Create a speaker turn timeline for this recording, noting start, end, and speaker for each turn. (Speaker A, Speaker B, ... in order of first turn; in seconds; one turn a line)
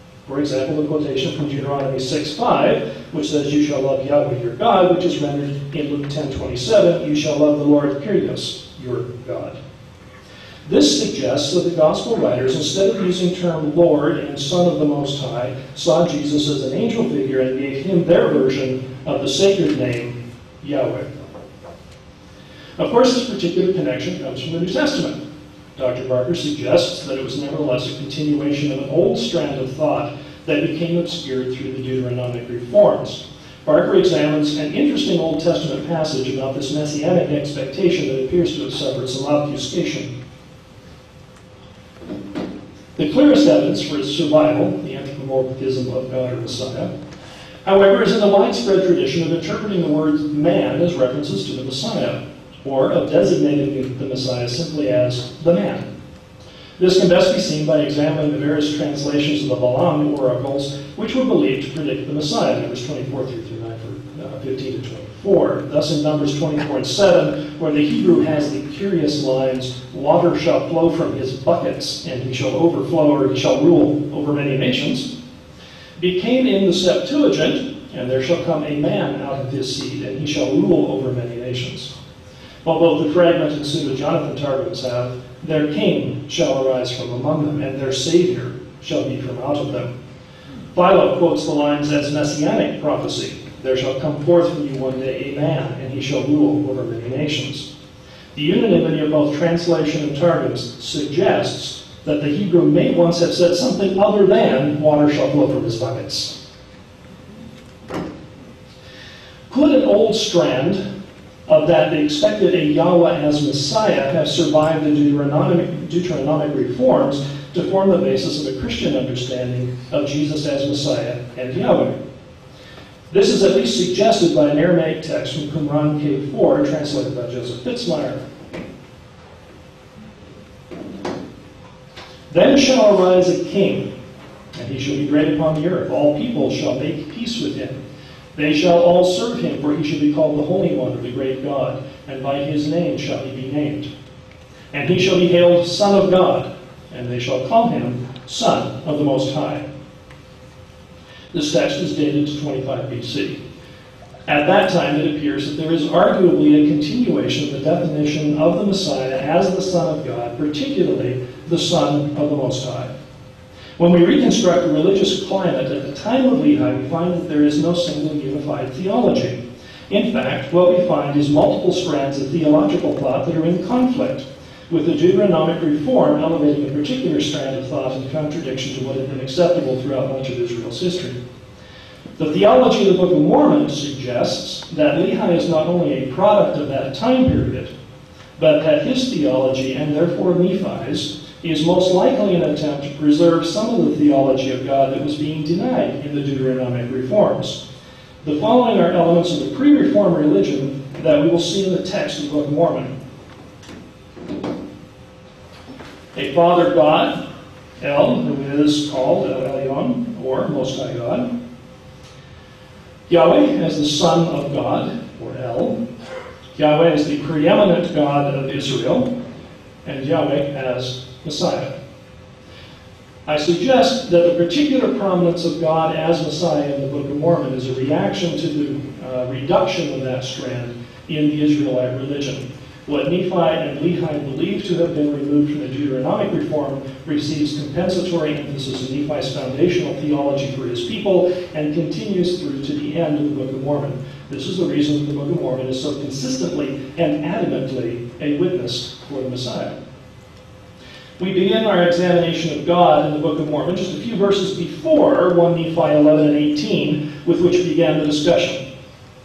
Speaker A: 0.3-9.6
Speaker A: 10.7-21.1
Speaker A: 22.8-25.2
Speaker A: 25.8-40.1
Speaker A: 43.0-46.9
Speaker A: 47.6-55.9
Speaker A: 56.8-75.1
Speaker A: 76.0-81.9
Speaker A: 82.6-89.9
Speaker A: 90.7-97.7
Speaker A: 98.3-106.4
Speaker A: 109.5-110.8
Speaker A: 111.5-122.0
Speaker A: 123.1-128.2
Speaker A: 132.3-133.9
Speaker A: 134.6-137.8
Speaker A: 138.3-143.9
Speaker A: 144.7-149.7
Speaker A: 151.3-153.4
Speaker A: 154.3-162.9
Speaker A: 163.8-181.2
Speaker A: 182.2-187.7
Speaker A: 188.4-197.6
Speaker A: 198.2-202.9
Speaker A: 206.1-207.2
Speaker A: 207.8-211.3
Speaker A: 213.1-215.8
Speaker A: 216.6-219.1
Speaker A: 219.8-221.7
Speaker A: 223.3-249.8
Speaker A: 251.2-258.6